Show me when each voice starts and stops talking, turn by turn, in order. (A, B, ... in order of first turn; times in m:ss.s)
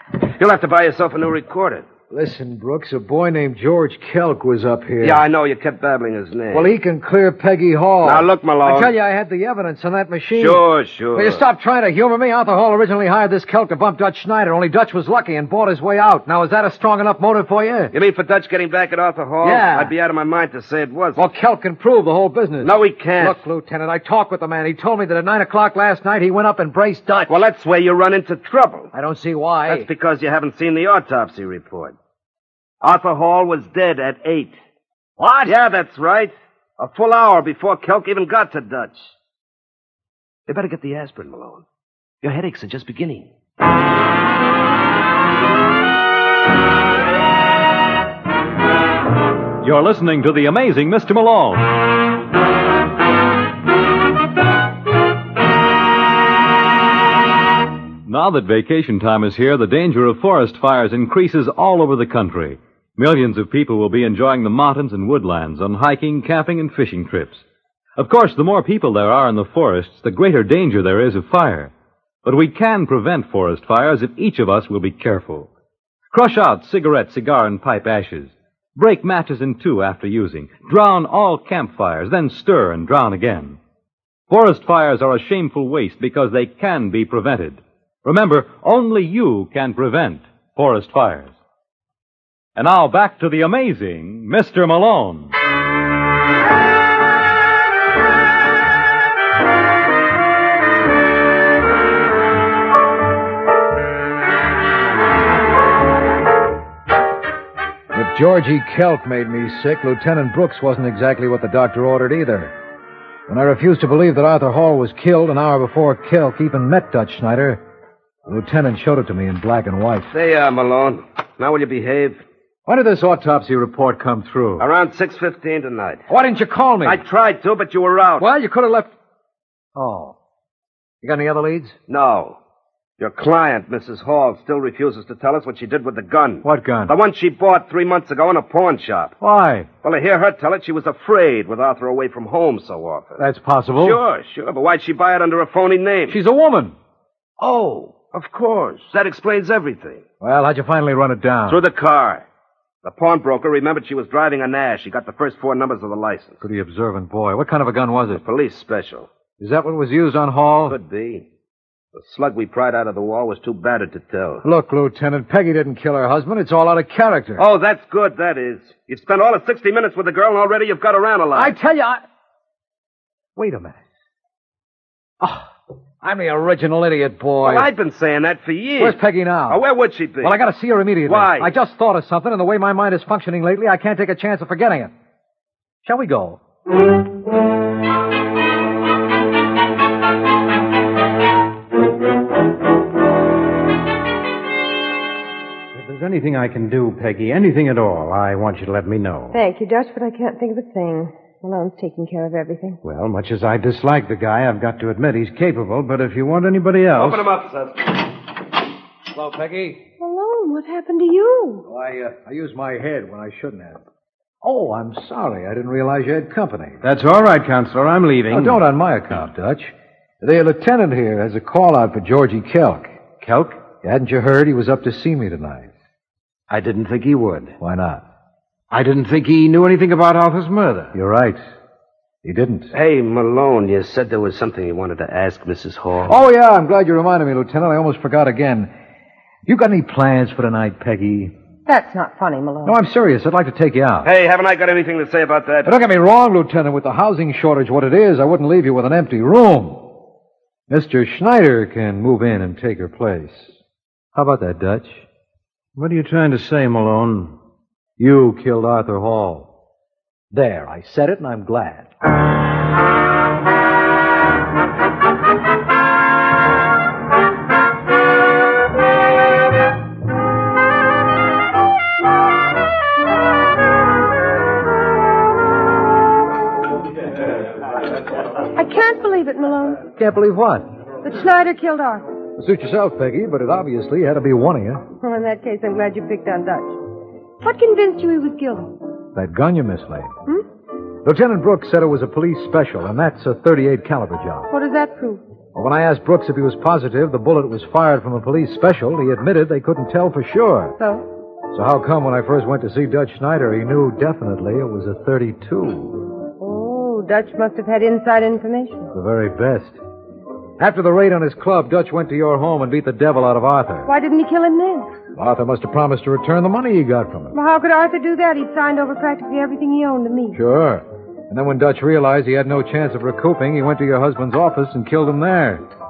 0:00.2-0:01.9 A
0:02.1-0:05.2 B
0:05.0-0:06.7 A
0:06.5-0:17.9 B
0:08.0-0:08.9 A
0:10.3-0:11.4 A
0:17.9-0:21.2 A
0:19.4-0:19.9 B
0:21.1-0:27.4 B
0:22.6-0:23.4 A
0:27.3-0:28.9 A
0:28.9-0:29.9 B
0:29.7-0:32.0 A
0:32.8-0:34.5 A
0:35.2-0:35.5 B
0:35.4-0:39.1 A
0:40.5-0:41.6 A
0:42.2-0:43.3 A
0:49.6-0:51.7 C
0:58.0-1:07.4 C
1:08.0-1:11.7 C
1:12.2-1:15.5 C
1:16.1-1:23.6 C
1:24.3-1:31.3 C
1:32.6-1:35.3 C
1:47.9-1:52.5 B
1:53.3-1:57.6 B
1:58.2-2:00.1 B
2:00.1-2:02.2 A
2:02.7-2:04.6 B
2:04.6-2:06.0 A
2:06.1-2:07.0 B
2:06.8-2:08.2 A
2:08.2-2:08.9 B
2:09.7-2:10.2 B
2:11.0-2:11.8 B
2:11.9-2:12.4 A
2:13.0-2:19.1 A
2:16.4-2:17.0 B
2:19.2-2:19.7 B
2:19.8-2:23.2 A
2:23.2-2:24.0 B
2:23.8-2:26.2 A
2:26.1-2:26.7 B
2:27.4-2:30.0 A
2:30.2-2:31.6 B
2:31.5-2:32.2 A
2:32.8-2:36.4 A
2:36.4-2:38.2 B
2:38.1-2:39.1 A
2:39.4-2:40.8 B
2:40.7-2:41.2 A
2:41.9-2:44.4 A
2:44.4-2:47.4 B
2:47.4-2:51.5 A
2:51.3-2:52.0 B
2:53.4-2:53.8 B
2:55.2-2:55.5 B
2:56.0-2:57.7 B
2:57.4-3:00.4 A
2:58.8-2:59.6 B
3:00.2-3:04.9 B
3:01.1-3:01.5 A
3:05.8-3:06.4 B
3:15.7-3:19.4 D
3:19.3-3:22.8 E
3:22.8-3:27.2 D
3:26.9-3:28.0 A
3:29.1-3:29.8 B
3:30.0-3:31.7 E
3:31.7-3:33.8 B
3:34.4-3:36.8 B
3:36.8-3:38.6 D
3:38.3-3:45.7 B
3:43.2-3:43.5 D
3:46.5-3:47.5 D
3:47.6-3:48.0 B
3:48.7-3:50.9 D
3:50.9-3:51.4 B
3:52.2-3:52.7 B
3:52.7-3:56.2 A
3:56.0-3:58.7 B
3:59.4-4:01.3 B
4:01.7-4:02.8 E
4:02.6-4:04.1 B
4:04.0-4:05.7 A
4:05.6-4:09.9 B
4:10.7-4:13.5 B
4:14.1-4:15.0 B
4:15.7-4:17.4 D
4:18.0-4:19.5 B
4:20.3-4:21.9 B
4:38.4-4:39.8 E
4:40.0-4:40.6 B
4:41.0-4:42.0 E
4:42.4-4:44.8 B
4:45.0-4:46.8 E
4:47.4-4:48.8 E
4:49.1-4:50.1 B
4:51.0-4:54.5 B
4:54.5-4:55.2 E
4:55.5-5:00.8 B
5:00.8-5:01.0 E
5:01.5-5:06.0 B
5:06.4-5:08.9 E
5:08.9-5:09.8 B
5:10.6-5:13.9 B
5:13.8-5:14.9 E
5:15.1-5:17.3 B
5:17.3-5:20.4 E
5:20.3-5:25.6 B